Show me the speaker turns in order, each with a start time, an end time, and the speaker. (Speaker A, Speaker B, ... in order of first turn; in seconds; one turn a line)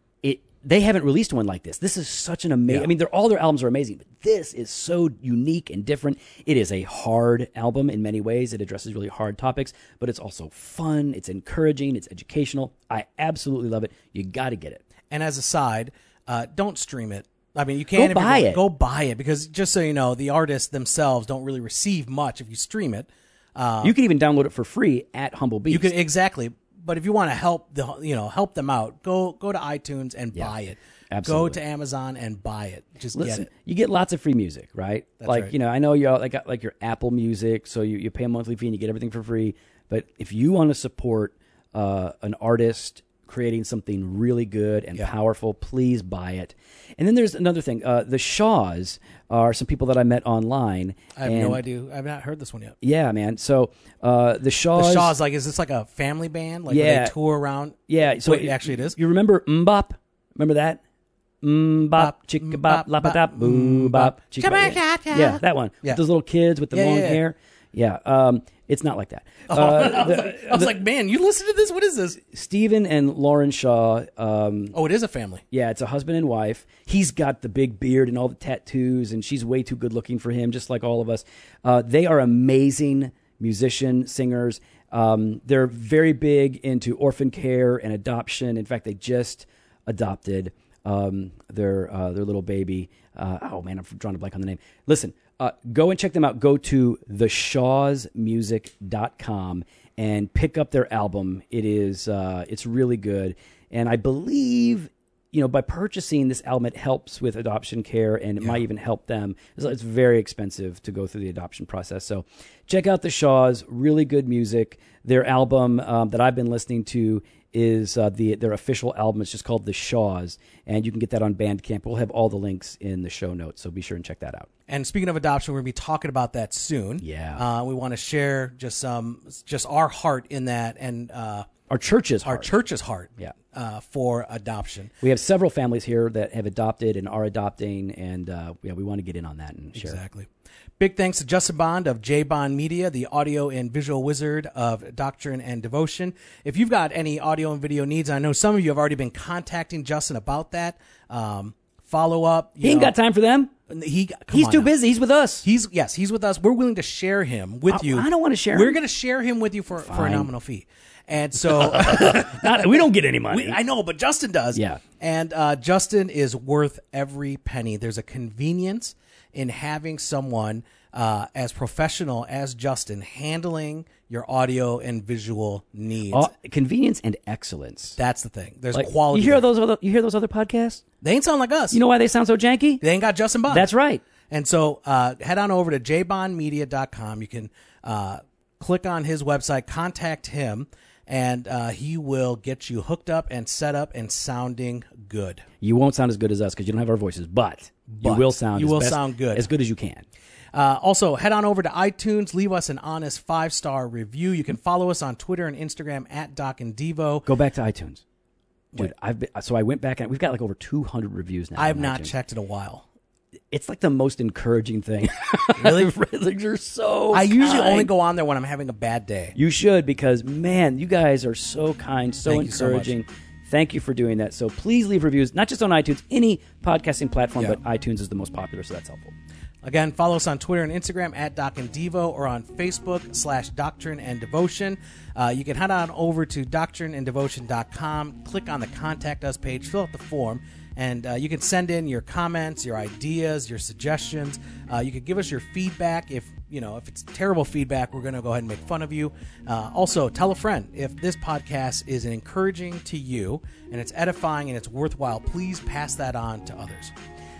Speaker A: 0.2-14.8
Speaker B: 15.1-23.9
Speaker A: 17.9-18.6
Speaker A: 23.8-25.9
Speaker B: 25.7-33.5
Speaker A: 31.1-31.6
Speaker A: 33.1-51.6
Speaker B: 35.2-35.5
Speaker B: 51.2-52.8
Speaker A: 52.8-55.2
Speaker B: 54.8-59.0
Speaker A: 56.7-57.1
Speaker A: 57.9-60.8
Speaker A: 61.4-70.8
Speaker B: 62.0-66.0
Speaker B: 66.7-67.2
Speaker B: 69.5-72.2
Speaker A: 72.2-74.8
Speaker B: 74.7-75.4
Speaker A: 75.5-124.5
Speaker B: 124.7-131.5
Speaker A: 127.0-127.4
Speaker A: 131.7-132.6
Speaker B: 132.2-134.9
Speaker A: 135.0-140.0
Speaker B: 139.8-152.9
Speaker A: 152.6-153.5
Speaker B: 153.7-154.7
Speaker A: 154.3-155.5
Speaker B: 155.4-176.3
Speaker A: 157.7-158.8
Speaker A: 159.8-160.3
Speaker A: 161.4-163.6
Speaker A: 164.5-164.8
Speaker A: 176.1-178.0
Speaker B: 178.0-179.4
Speaker A: 178.7-180.8
Speaker B: 181.0-181.8
Speaker A: 181.7-182.8
Speaker B: 182.8-183.7
Speaker A: 183.5-184.0
Speaker B: 184.3-195.4
Speaker A: 195.6-200.1
Speaker B: 197.9-199.5
Speaker B: 200.5-207.3
Speaker A: 207.3-208.0
Speaker A: 208.8-212.1
Speaker B: 211.6-212.9
Speaker A: 213.5-217.9
Speaker B: 215.6-215.9
Speaker B: 217.1-219.4
Speaker A: 219.4-229.2
Speaker B: 222.3-222.9
Speaker B: 229.6-256.9